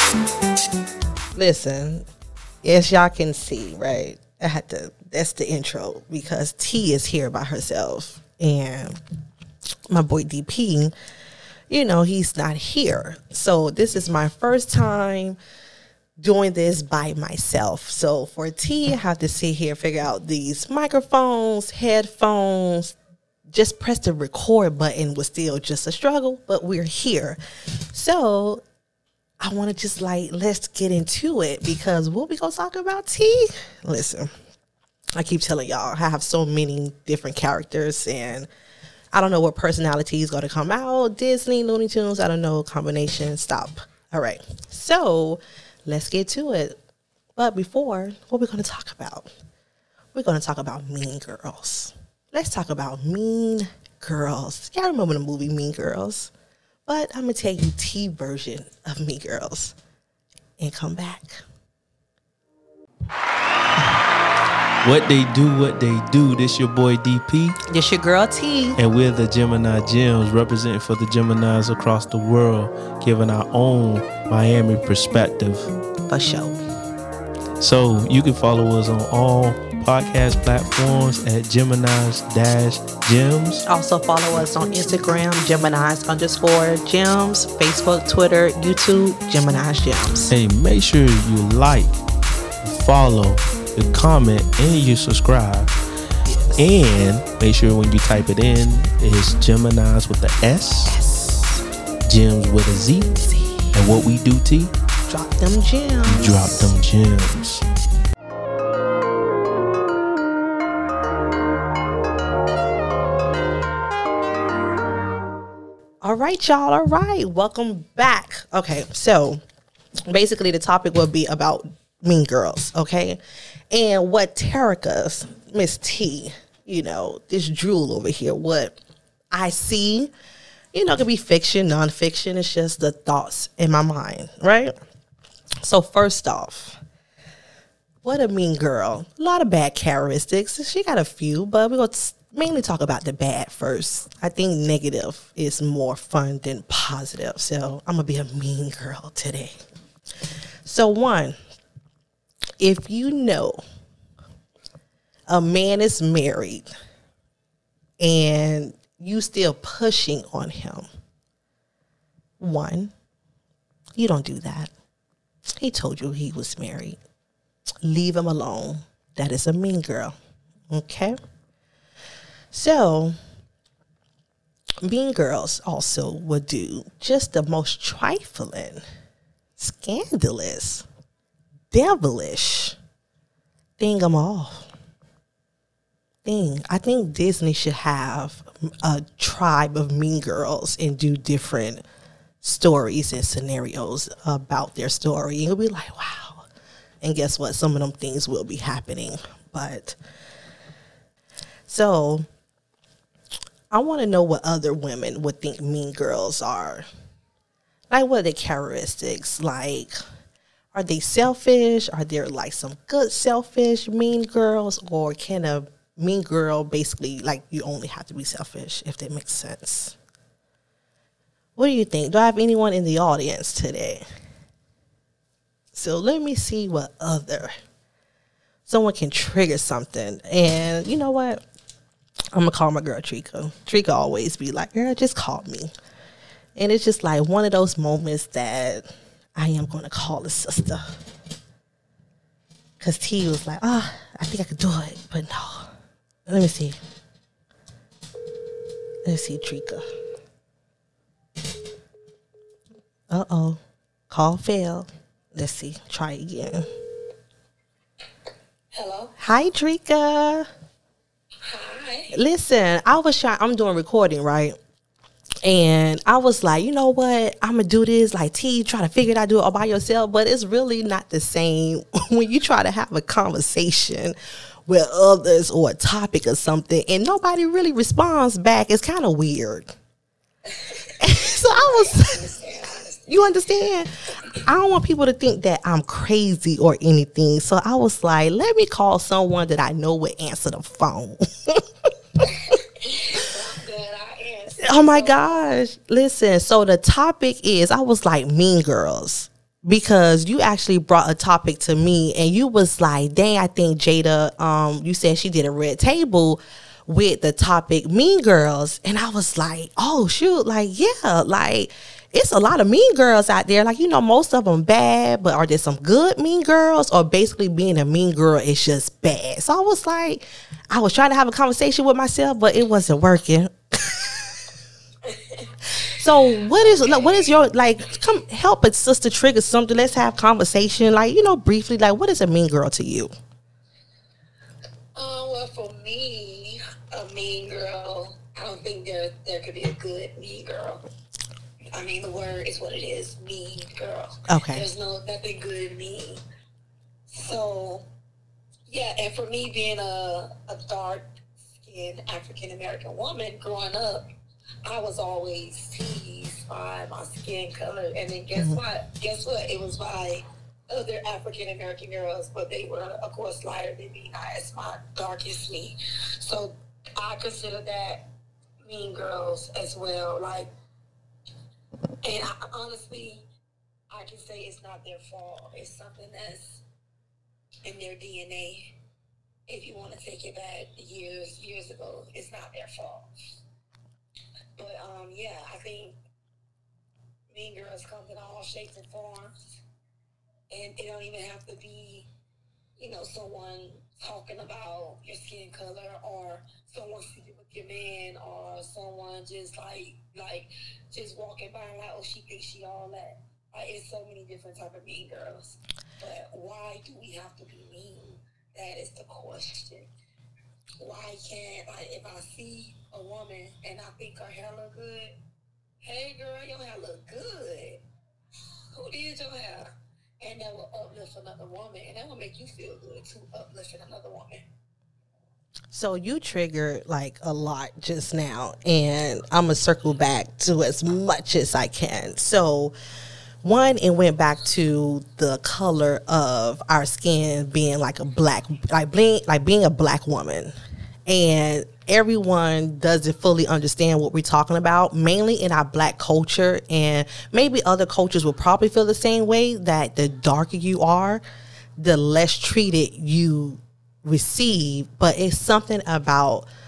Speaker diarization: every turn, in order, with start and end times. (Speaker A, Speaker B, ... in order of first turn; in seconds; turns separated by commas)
Speaker A: 1.3-2.0, Speaker A: 2.6-8.9, Speaker A: 9.9-10.9, Speaker A: 11.7-15.4, Speaker A: 16.2-22.9, Speaker A: 23.5-27.4, Speaker A: 27.9-28.6, Speaker A: 29.4-34.3, Speaker A: 35.2-38.5, Speaker A: 39.1-46.8, Speaker A: 47.4-49.3, Speaker A: 50.1-56.3, Speaker A: 56.9-59.8, Speaker A: 60.6-61.4, Speaker B: 64.8-67.6, Speaker A: 67.7-68.8, Speaker B: 68.8-75.7, Speaker A: 76.1-76.5, Speaker B: 77.6-83.6, Speaker A: 83.7-90.3, Speaker B: 90.3-92.0, Speaker B: 92.6-95.7, Speaker A: 96.2-96.6, Speaker B: 96.5-101.0, Speaker A: 100.8-101.6, Speaker B: 102.1-104.7, Speaker A: 103.3-103.6, Speaker A: 105.1-106.7, Speaker B: 106.1-107.6, Speaker A: 116.0-119.4, Speaker A: 120.1-123.2, Speaker A: 123.7-128.8, Speaker A: 129.3-130.1, Speaker A: 130.7-134.7, Speaker A: 135.6-136.8, Speaker A: 138.0-149.6, Speaker A: 150.7-151.4, Speaker A: 152.6-153.6, Speaker A: 155.3-156.7, Speaker A: 158.0-160.9, Speaker A: 162.4-162.9, Speaker A: 163.9-164.7, Speaker A: 165.5-167.0, Speaker A: 167.8-170.1, Speaker A: 170.7-171.2, Speaker A: 172.5-173.1, Speaker A: 174.8-178.8, Speaker A: 179.6-180.8, Speaker A: 181.7-182.8, Speaker A: 183.8-184.7, Speaker A: 186.2-191.8, Speaker A: 192.4-196.4, Speaker A: 197.0-200.0, Speaker A: 201.7-202.2, Speaker A: 203.7-206.8, Speaker A: 207.9-210.0, Speaker A: 210.7-219.9, Speaker A: 221.6-224.0, Speaker A: 225.7-227.5, Speaker A: 228.7-231.4, Speaker A: 232.3-235.7, Speaker A: 236.6-240.8, Speaker A: 242.8-245.7, Speaker A: 246.3-246.8, Speaker A: 249.0-249.8, Speaker A: 253.1-253.6, Speaker A: 254.1-256.6, Speaker C: 258.7-259.1, Speaker A: 259.2-260.5, Speaker C: 261.4-262.1, Speaker A: 262.1-264.6, Speaker A: 265.4-274.1, Speaker A: 274.7-279.7, Speaker C: 280.4-283.7, Speaker A: 281.0-282.2, Speaker A: 283.1-283.9, Speaker A: 284.4-291.6, Speaker C: 292.2-295.6, Speaker A: 294.6-324.4, Speaker C: 325.1-325.5, Speaker A: 325.9-333.1, Speaker C: 326.5-327.3, Speaker C: 334.9-340.8, Speaker C: 341.7-346.2, Speaker A: 344.3-344.6, Speaker C: 347.1-347.9, Speaker C: 348.7-354.1, Speaker C: 354.6-368.0, Speaker C: 368.6-370.5, Speaker C: 372.0-373.2, Speaker C: 373.9-376.6, Speaker C: 377.6-378.7, Speaker C: 379.5-383.1, Speaker C: 384.6-386.0, Speaker C: 387.3-389.6, Speaker C: 390.5-392.1, Speaker C: 392.8-409.9, Speaker C: 410.8-415.1, Speaker C: 415.8-417.8, Speaker C: 418.7-419.7, Speaker C: 420.2-424.4, Speaker A: 425.7-432.7, Speaker A: 433.4-440.5, Speaker A: 441.1-451.2, Speaker A: 451.8-456.5